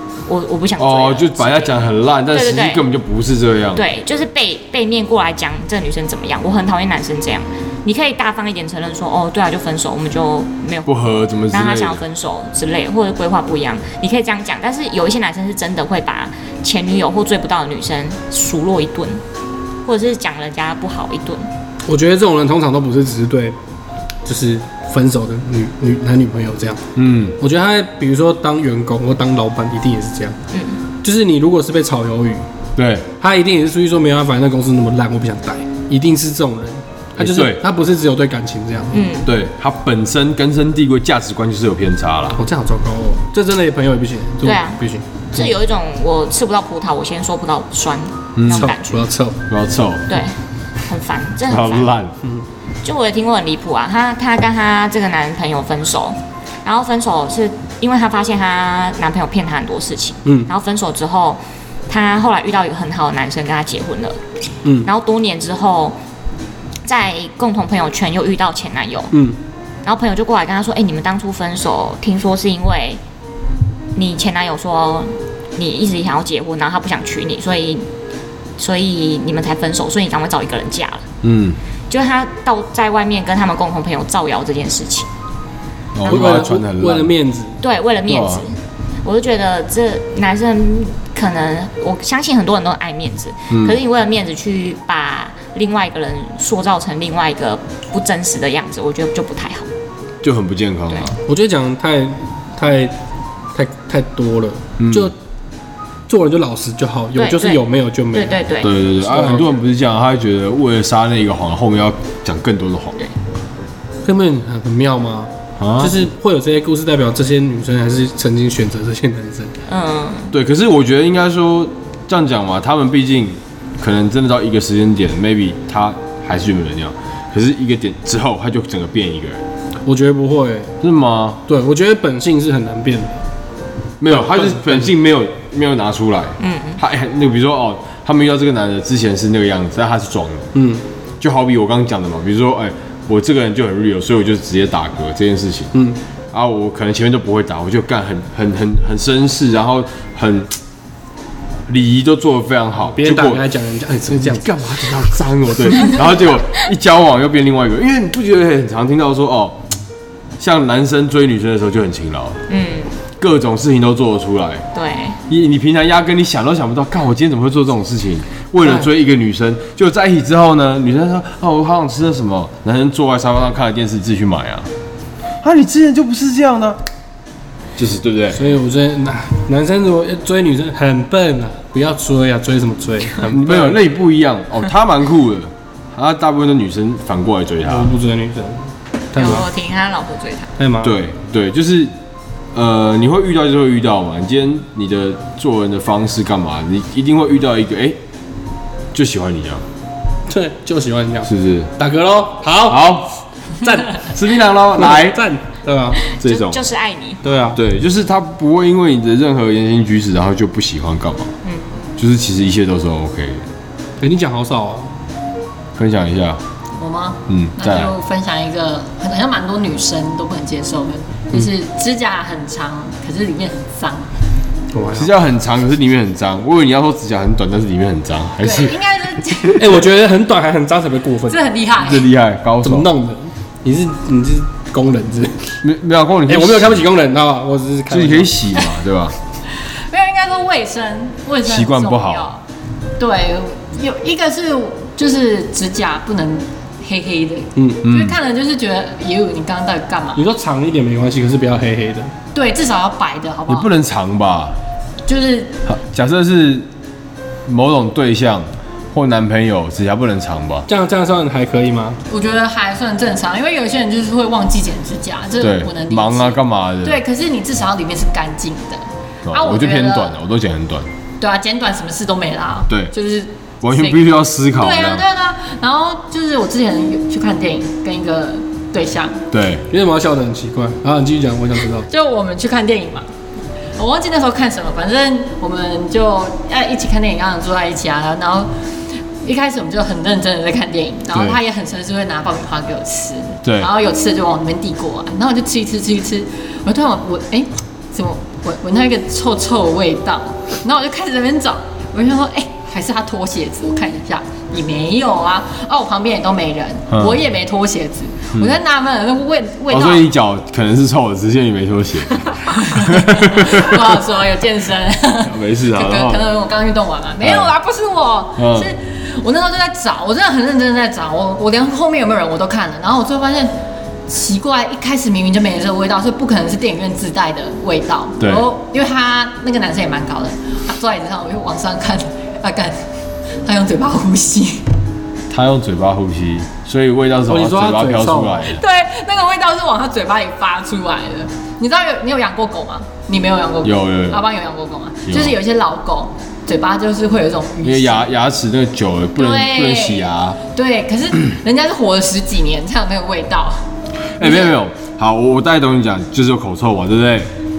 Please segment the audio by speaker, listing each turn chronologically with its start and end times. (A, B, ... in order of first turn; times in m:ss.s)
0:00.2-0:02.8 A
0:00.8-0:03.8 B
0:03.7-0:19.2 A
0:10.8-0:12.0 B
0:19.8-0:21.5 A
0:21.8-0:23.6 C
0:24.2-0:26.8 C
0:27.0-0:27.4 B
0:27.4-0:30.4 C
0:30.5-0:30.8 A
0:31.0-0:32.4 C
0:32.8-0:33.0 B
0:33.2-0:39.1 C
0:37.2-0:37.6 B
0:38.9-0:39.3 A
0:39.2-0:42.4 B
0:42.3-0:45.5 C
0:44.4-0:49.1 A
0:48.4-0:48.7 B
0:48.5-0:49.4 C
0:49.5-0:50.0 B
0:50.1-0:50.3 A
0:50.8-0:51.9 A
0:51.5-0:52.1 B
0:52.8-1:04.2 A
1:00.2-1:00.5 C
1:04.6-1:04.9 C
1:04.8-1:06.0 A
1:06.8-1:09.2 A
1:09.1-1:09.4 C
1:09.8-1:13.0 A
1:13.9-1:17.8 A
1:18.6-1:21.0 A
1:21.2-1:21.6 B
1:21.9-1:25.1 A
1:25.9-1:27.1 B
1:26.0-1:27.6 C
1:27.6-1:39.7 A
1:28.1-1:28.4 B
1:33.5-1:33.8 B
1:40.2-1:41.2 B
1:41.2-1:42.9 C
1:43.5-1:45.1 C
1:44.8-1:45.1 B
1:46.1-1:48.4 C
1:47.1-1:49.4 A
1:48.6-1:53.0 B
1:49.0-1:49.4 C
1:54.0-1:59.5 C
1:55.6-1:56.0 B
1:59.7-2:00.3 A
2:00.3-2:09.4 B
2:09.8-2:10.7 C
2:10.8-2:11.4 B
2:11.5-2:13.2 C
2:14.0-2:20.5 B
2:14.1-2:14.9 C
2:16.4-2:16.8 A
2:20.5-2:20.8 C
2:21.2-2:25.7 B
2:26.3-2:30.6 B
2:31.7-2:33.4 B
2:32.9-2:34.5 C
2:34.1-2:39.6 B
2:40.4-2:42.4 B
2:42.5-2:42.9 A
2:43.2-2:44.6 B
2:44.7-2:45.2 A
2:45.3-2:54.7 B
2:55.4-2:56.8 B
2:57.8-2:58.4 B
2:58.3-3:03.8 C
3:03.2-3:07.9 B
3:07.6-3:09.5 C
3:09.1-3:10.5 A
3:10.6-3:11.0 C
3:10.8-3:11.9 B
3:12.5-3:18.0 B
3:18.9-3:19.6 B
3:20.3-3:23.0 C
3:21.2-3:21.7 B
3:22.7-3:23.1 B
3:23.6-3:24.1 C
3:23.9-3:25.2 B
3:24.7-3:26.0 C
3:26.1-3:27.2 A
3:26.2-3:26.6 B
3:27.2-3:27.6 C
3:27.5-3:31.3 B
3:31.4-3:31.8 A
3:32.0-3:33.4 B
3:34.0-3:34.9 C
3:35.8-3:36.4 B
3:36.8-3:44.1 D
3:37.3-3:37.9 B
3:44.7-3:45.1 C
3:44.9-3:48.7 B
3:48.4-3:49.6 D
3:49.6-3:51.4 C
3:51.3-3:52.1 D
3:51.8-3:52.9 B
3:52.6-3:55.6 C
3:55.6-3:56.9 B
3:56.3-3:58.5 C
3:57.9-3:59.2 B
3:59.9-4:02.4 D
4:01.4-4:02.3 B
4:03.0-4:10.3 D
4:07.6-4:07.8 C
4:07.8-4:08.2 B
4:10.2-4:12.1 C
4:12.3-4:13.7 D
4:13.5-4:14.6 B
4:15.0-4:15.6 D
4:15.7-4:16.7 B
4:17.4-4:20.7 B
4:20.7-4:22.0 C
4:22.1-4:30.2 D
4:25.4-4:27.0 B
4:29.2-4:30.9 B
4:31.2-4:39.2 D
4:33.6-4:35.0 B
4:39.3-4:39.6 B
4:39.7-4:41.9 C
4:41.9-4:43.1 D
4:43.8-4:48.5 D
4:49.2-5:10.1 D
4:51.1-4:51.4 B
4:53.4-4:53.7 B
5:06.9-5:07.2 B
5:09.7-5:14.0 B
5:12.4-5:23.5 D
5:15.2-5:16.3 B
5:17.2-5:17.5 B
5:18.4-5:18.7 B
5:24.1-5:32.8 D
5:33.4-5:34.6 D
5:35.3-5:38.6 B
5:37.3-5:38.5 C
5:38.5-5:48.1 D
5:43.6-5:44.2 B
5:45.1-5:45.4 B
5:47.6-5:50.4 B
5:49.2-5:53.6 D
5:54.2-5:57.3 B
5:54.2-5:54.5 D